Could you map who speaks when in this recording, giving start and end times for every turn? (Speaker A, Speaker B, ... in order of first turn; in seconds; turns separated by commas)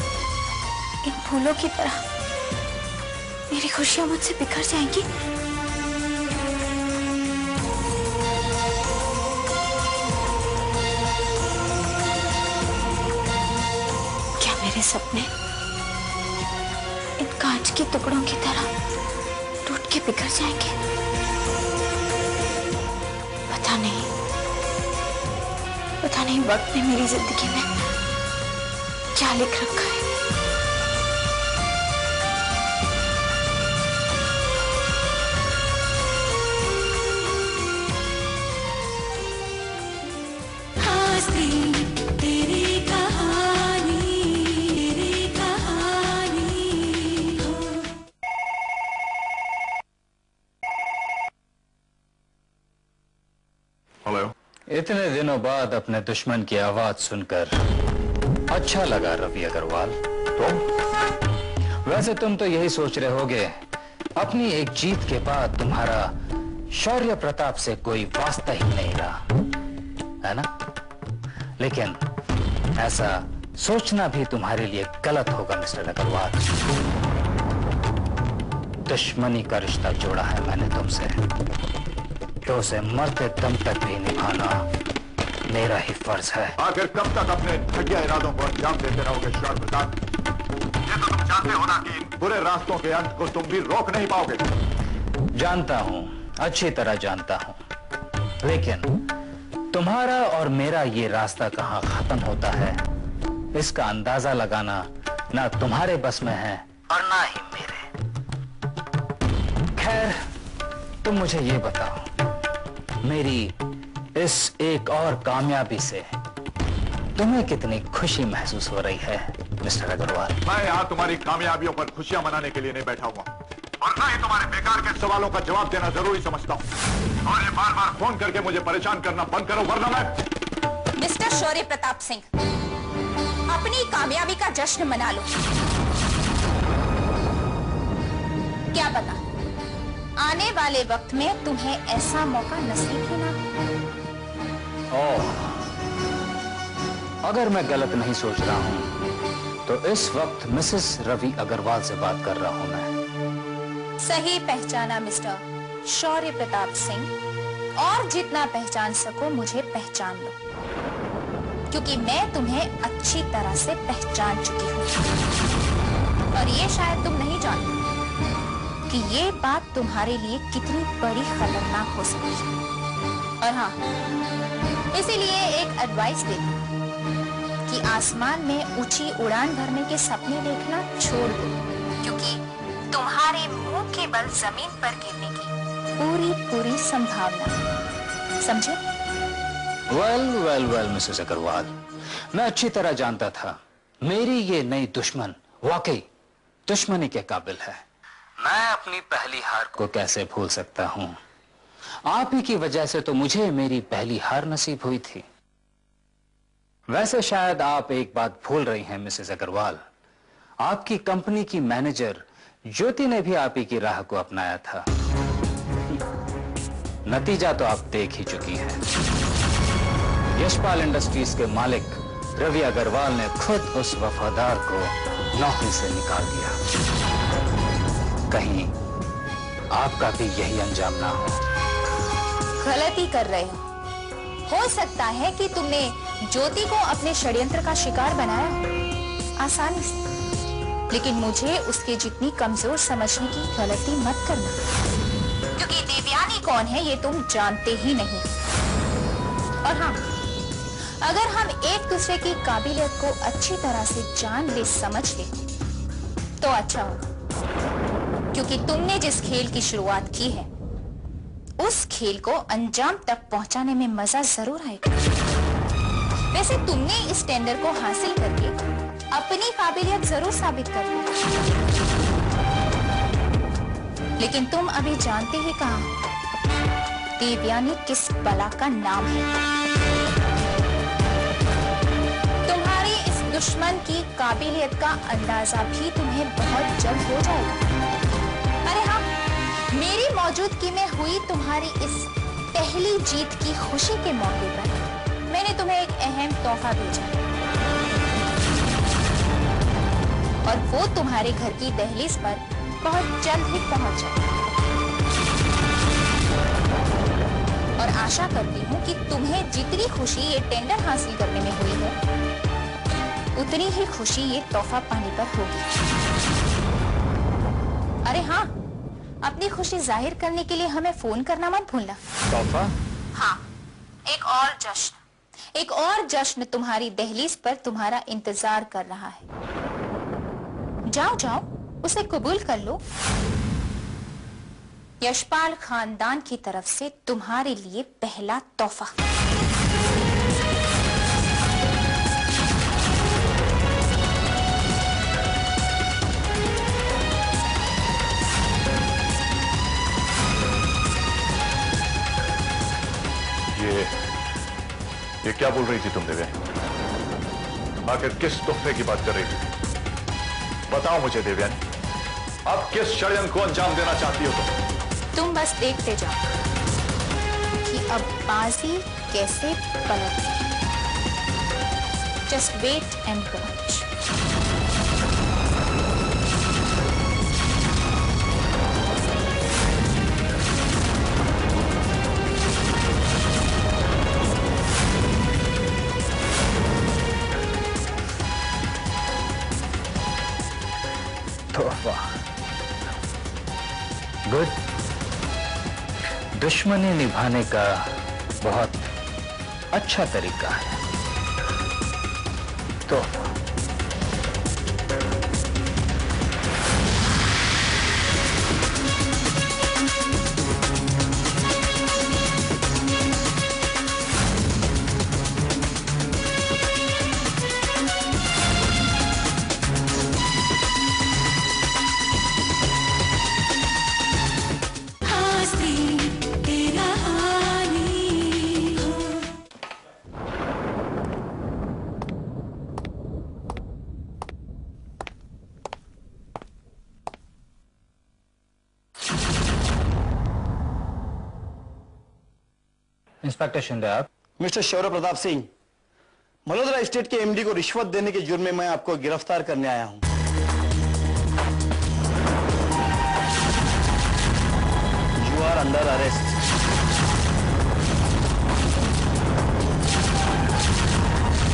Speaker A: 1.0-2.0, Speaker A: 3.5-5.1, Speaker A: 14.4-15.3, Speaker A: 17.2-18.7, Speaker A: 19.7-20.8, Speaker A: 23.5-24.1, Speaker A: 26.0-27.7, Speaker A: 29.1-30.0, Speaker A: 40.8-46.9, Speaker B: 54.0-54.3, Speaker C: 54.7-57.5, Speaker C: 58.5-60.0, Speaker B: 60.4-60.7, Speaker C: 61.9-63.5, Speaker C: 64.2-66.1, Speaker C: 66.7-69.2, Speaker C: 70.2-70.5, Speaker C: 71.6-72.0, Speaker C: 72.8-76.5, Speaker C: 78.9-81.2, Speaker C: 82.4-84.7, Speaker C: 85.5-86.6, Speaker B: 86.6-90.0, Speaker B: 90.9-94.5, Speaker C: 95.4-97.6, Speaker C: 98.4-99.0, Speaker C: 99.7-102.8, Speaker C: 103.5-107.9, Speaker C: 109.7-110.2, Speaker C: 111.0-112.1, Speaker C: 113.0-113.5, Speaker C: 114.2-116.0, Speaker C: 117.2-120.4, Speaker B: 120.5-126.7, Speaker B: 127.2-130.2, Speaker D: 131.0-132.3, Speaker D: 133.5-135.3, Speaker D: 138.7-139.2, Speaker D: 140.2-143.4, Speaker C: 144.9-145.7, Speaker C: 147.2-148.9, Speaker C: 149.7-152.9, Speaker D: 154.0-157.1, Speaker D: 157.8-160.3, Speaker D: 161.7-164.9, Speaker D: 166.3-167.7, Speaker D: 168.9-172.5, Speaker D: 173.4-173.8, Speaker D: 174.9-176.5, Speaker D: 177.7-187.6, Speaker D: 188.4-188.8, Speaker C: 189.9-191.7, Speaker C: 192.3-196.0, Speaker C: 196.7-197.8, Speaker C: 198.4-201.2, Speaker C: 202.1-205.2, Speaker C: 206.9-209.8, Speaker C: 210.6-214.9, Speaker C: 217.1-218.8, Speaker C: 220.4-226.6, Speaker C: 228.3-228.7, Speaker C: 229.7-231.4, Speaker D: 232.6-233.6, Speaker D: 234.5-238.7, Speaker D: 239.4-240.1, Speaker D: 240.9-244.6, Speaker D: 245.6-248.3, Speaker D: 249.6-250.0, Speaker D: 251.0-255.3, Speaker D: 256.4-257.0, Speaker D: 258.3-260.5, Speaker D: 261.6-264.9, Speaker D: 266.3-268.5, Speaker D: 269.1-271.1, Speaker D: 274.2-275.9, Speaker D: 277.2-279.3, Speaker D: 282.5-287.6, Speaker D: 288.6-289.1, Speaker D: 289.7-294.8, Speaker D: 295.3-297.2, Speaker D: 300.4-304.2, Speaker D: 307.8-312.0, Speaker D: 313.4-315.7, Speaker D: 318.1-318.5, Speaker D: 319.2-322.0, Speaker C: 322.3-322.7, Speaker D: 323.1-323.4, Speaker D: 324.1-325.0, Speaker D: 325.6-329.2, Speaker D: 330.9-332.8, Speaker D: 335.0-339.0, Speaker B: 353.6-353.9, Speaker B: 355.2-356.4, Speaker B: 357.9-359.4, Speaker B: 360.7-361.6, Speaker B: 362.5-364.5, Speaker D: 365.1-366.2, Speaker D: 367.6-370.5, Speaker D: 372.3-373.9, Speaker C: 391.5-392.1, Speaker C: 394.3-394.6, Speaker C: 396.4-397.9, Speaker C: 398.4-398.9, Speaker C: 399.7-400.8, Speaker C: 402.9-403.3, Speaker A: 425.0-428.8, Speaker C: 443.2-444.1, Speaker E: 444.4-445.5, Speaker E: 446.5-450.1, Speaker E: 455.2-456.3